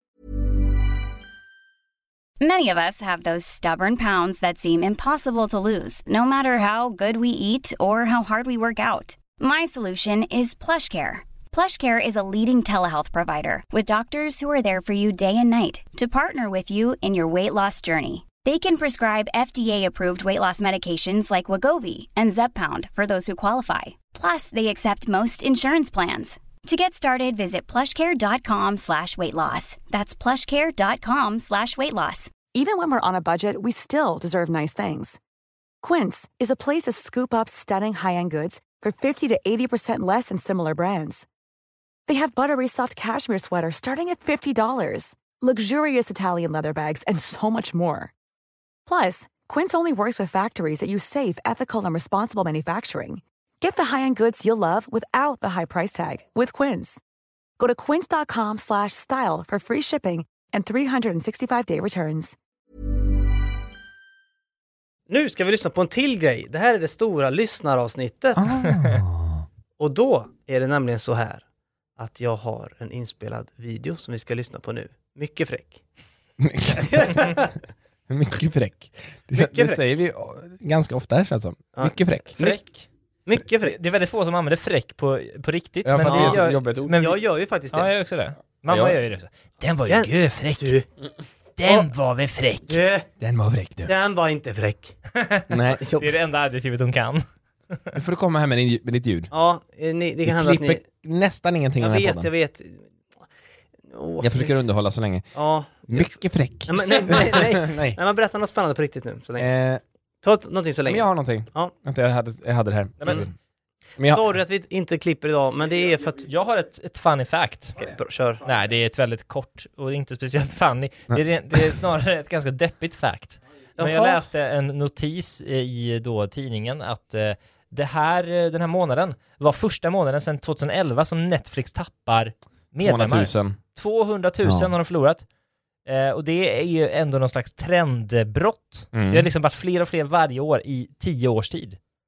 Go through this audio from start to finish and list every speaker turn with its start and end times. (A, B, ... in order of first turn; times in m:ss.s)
0:02.4-0:32.3 A
0:32.5-0:35.2 B
0:35.8-0:41.2 B
0:42.1-0:48.1 B
0:48.8-0:57.0 B
0:57.6-1:02.3 B
1:05.1-1:08.5 C
1:08.4-1:09.4 D
1:09.8-1:11.4 C
1:12.0-1:15.8 C
1:16.4-1:17.4 D
1:16.8-1:17.5 C
1:18.1-1:22.6 D
1:19.3-1:19.8 C
1:21.7-1:23.8 C
1:23.6-1:27.2 E
1:25.8-1:27.0 D
1:26.1-1:27.9 C
1:27.7-1:30.7 E
1:28.7-1:29.0 D
1:29.9-1:30.9 C
1:31.6-1:32.8 E
1:32.7-1:33.1 C
1:33.2-1:33.9 D
1:33.8-1:35.0 C
1:35.1-1:38.0 E
1:35.5-1:35.8 D
1:35.8-1:36.1 C
1:37.9-1:39.3 D
1:39.3-1:40.8 C
1:40.2-1:42.3 D
1:41.8-1:42.9 C
1:43.9-1:44.5 C
1:44.2-1:45.3 D
1:45.3-1:49.5 C
1:45.9-1:48.0 D
1:49.4-1:49.8 D
1:50.2-1:51.7 C
1:50.8-1:53.3 D
1:53.0-1:53.3 E
1:54.0-1:54.3 D
1:54.0-1:56.3 C
1:56.2-1:57.8 E
1:57.8-1:58.4 C
1:58.4-2:15.2 E
2:01.1-2:01.5 D
2:03.8-2:04.2 C
2:12.8-2:13.6 D
2:14.4-2:14.7 D
2:15.8-2:21.8 E
2:18.9-2:19.3 D